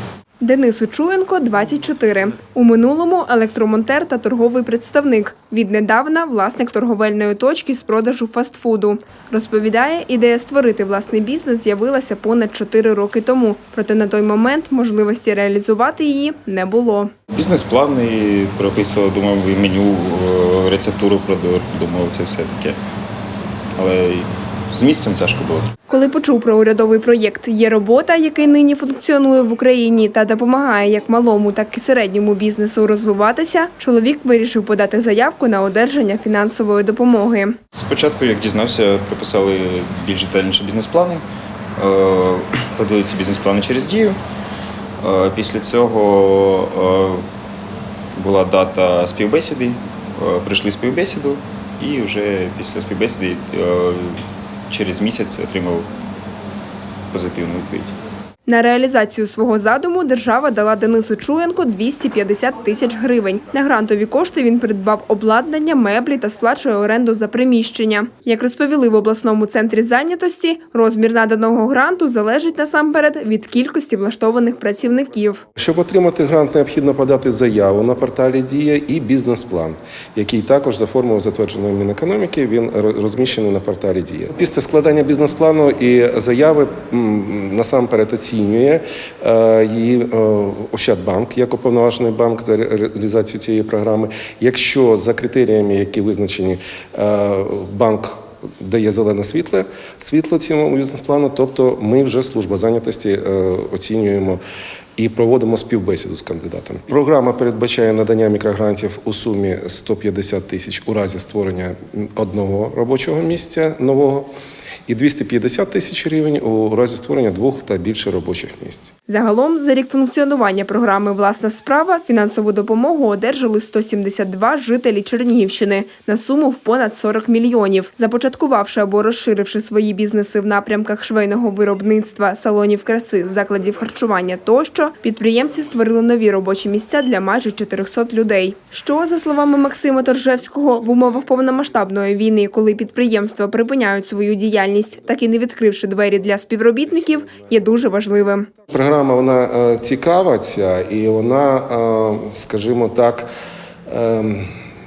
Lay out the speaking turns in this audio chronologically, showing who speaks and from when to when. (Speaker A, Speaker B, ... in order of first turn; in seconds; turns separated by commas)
Speaker A: 0.4-17.1, Speaker B: 17.3-22.8, Speaker B: 23.8-25.7, Speaker A: 25.9-37.5, Speaker B: 37.7-41.2, Speaker B: 41.8-44.2, Speaker B: 45.0-47.2, Speaker B: 48.1-55.9, Speaker B: 57.1-57.9, Speaker A: 58.5-75.4, Speaker C: 75.5-104.4, Speaker C: 105.0-114.3, Speaker C: 114.9-118.9, Speaker A: 119.1-148.5, Speaker C: 148.7-153.3, Speaker C: 153.9-154.5